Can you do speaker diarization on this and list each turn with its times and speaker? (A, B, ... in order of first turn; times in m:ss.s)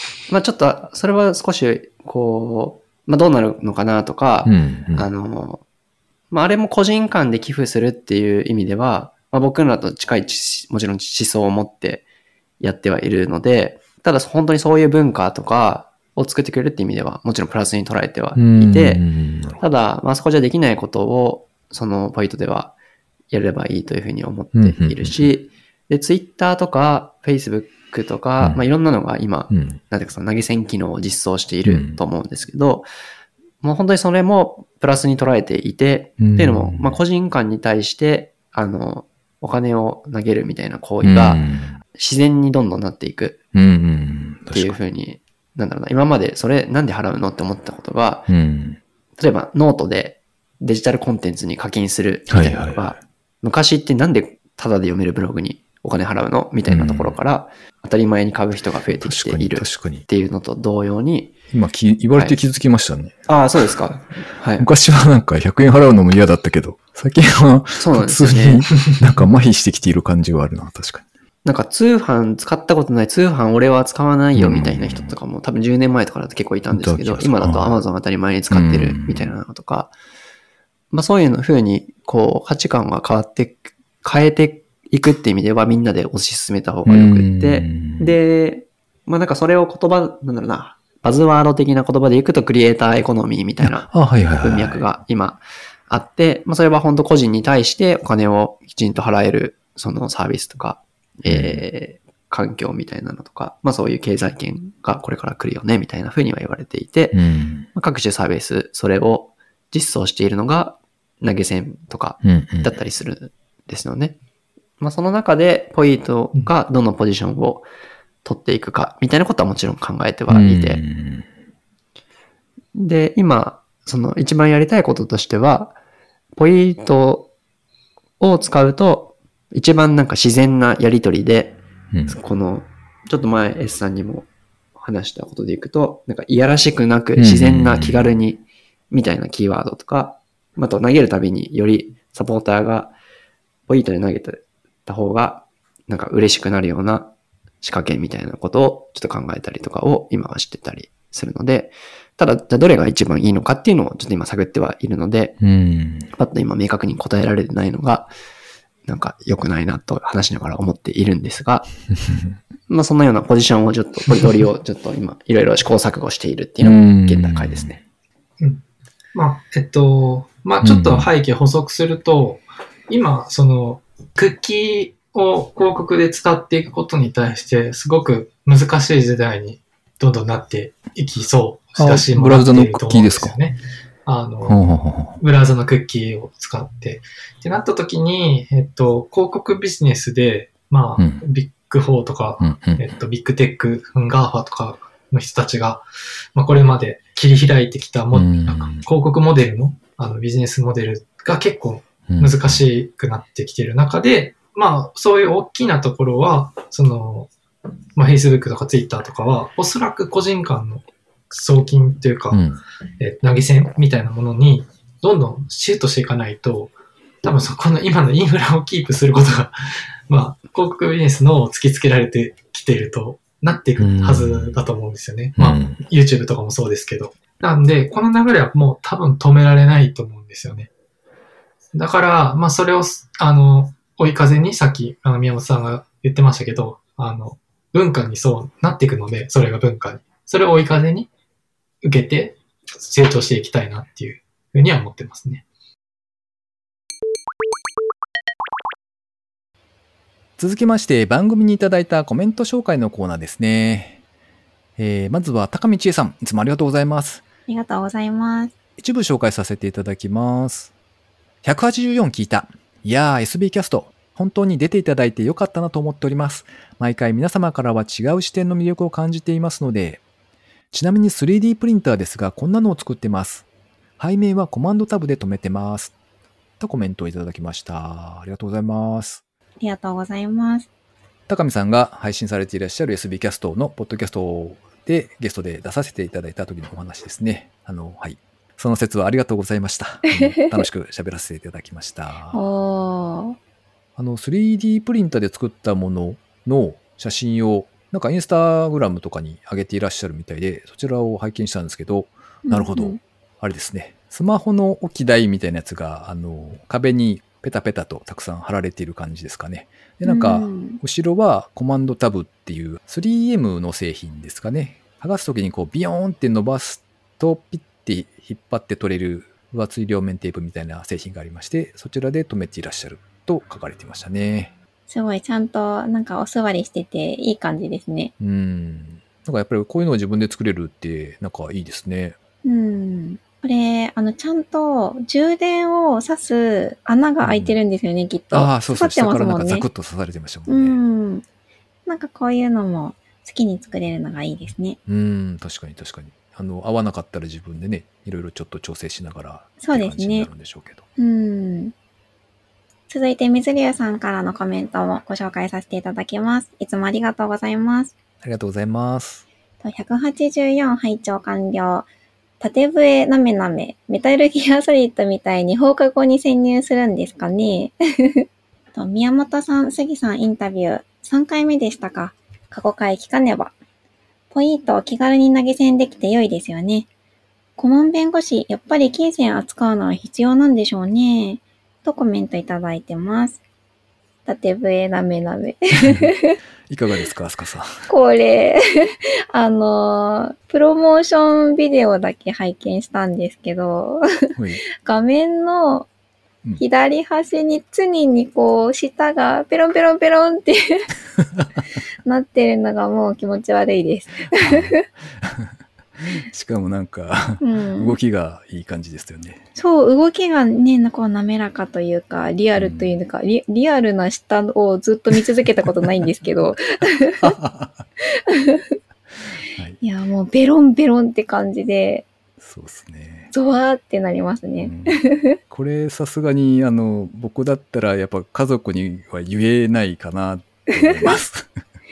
0:00.3-0:05.6 A
0:04.4-0:05.0 B
0:06.3-0:12.0 A
0:12.6-0:19.0 A
0:18.3-0:19.6 B
0:19.6-0:22.7 A
0:23.3-0:32.9 A
0:24.5-0:25.3 B
0:29.5-0:29.8 B
0:31.6-0:32.0 B
0:33.6-0:43.4 A
0:36.2-0:37.0 B
0:41.0-0:41.8 B
0:43.5-0:44.8 B
0:44.5-0:48.3 A
0:48.3-0:48.8 B
0:49.2-1:01.3 A
0:52.3-0:53.0 B
0:56.7-0:57.2 B
0:58.9-1:00.0 B
1:01.5-1:03.2 B
1:02.1-1:02.5 A
1:03.3-1:04.7 A
1:04.6-1:11.0 B
1:07.8-1:08.7 A
1:11.4-1:19.9 A
1:14.3-1:15.1 B
1:16.7-1:17.8 B
1:18.5-1:19.3 B
1:20.9-1:47.2 A
1:26.8-1:28.2 B
1:33.6-1:34.8 B
1:41.2-1:41.6 B
1:47.1-1:47.7 B
1:47.7-1:54.2 A
1:52.2-1:52.7 B
1:54.8-1:57.6 A
1:58.2-2:00.8 A
2:00.3-2:01.3 B
2:02.7-2:05.8 A
2:06.4-2:07.3 A
2:08.2-2:22.9 A
2:11.9-2:12.2 B
2:17.2-2:18.1 B
2:23.7-2:35.4 A
2:35.4-2:36.1 B
2:36.1-2:38.1 A
2:38.8-2:41.7 A
2:42.7-2:47.8 A
2:46.6-2:47.8 B
2:49.1-3:27.3 C
2:50.6-2:51.1 B
3:01.8-3:03.3 B
3:04.4-3:05.2 B
3:11.0-3:11.2 B
3:12.4-3:12.8 B
3:18.1-3:18.8 B
3:22.1-3:22.6 B
3:28.0-3:32.4 C
3:32.3-3:32.6 B
3:33.0-3:39.6 C
3:40.1-3:50.7 C
3:43.8-3:44.7 B
3:45.4-3:45.8 B
3:51.7-4:01.1 C
4:01.8-4:05.4 C
4:10.4-4:14.0 B
4:14.8-4:17.2 B
4:17.5-4:18.5 D
4:18.8-4:20.7 B
4:21.4-4:30.0 B
4:30.7-4:33.4 B
4:34.0-4:35.9 B
4:36.6-4:39.2 B
4:39.6-4:40.7 D
4:41.3-4:52.4 B
4:50.1-4:50.5 D
4:52.3-4:53.4 D
4:54.0-5:24.5 B
5:02.4-5:03.0 D
5:10.0-5:10.8 D
5:24.9-5:28.1 D
5:28.2-5:32.2 B
5:32.4-5:39.7 D
5:37.2-5:37.6 B
5:38.3-5:40.8 B
5:40.5-5:41.2 D
5:41.9-5:44.8 D
5:44.8-5:50.8 B
5:49.6-5:50.3 D
5:51.0-5:51.7 D
5:52.9-5:57.9 D
5:58.2-5:59.2 B
5:59.6-6:01.9 D
6:02.4-6:13.5 D
6:14.3-6:16.9 D
6:17.6-6:23.4 D
6:24.2-6:26.4 D
6:25.8-6:26.1 B
6:26.7-6:27.9 B
6:27.9-6:35.9 D
6:34.4-6:34.6 B
6:36.6-6:40.9 D
6:42.0-6:44.8 D
6:44.4-6:45.5 B
6:46.0-6:49.4 B
6:47.4-6:48.0 D
6:49.6-6:57.3 D
6:52.6-6:53.0 B
6:57.2-6:57.8 B
6:58.2-6:58.8 D
6:59.8-7:02.1 D
7:02.4-7:03.3 B
7:03.3-7:05.4 D
7:04.6-7:11.6 B
7:10.7-7:11.2 D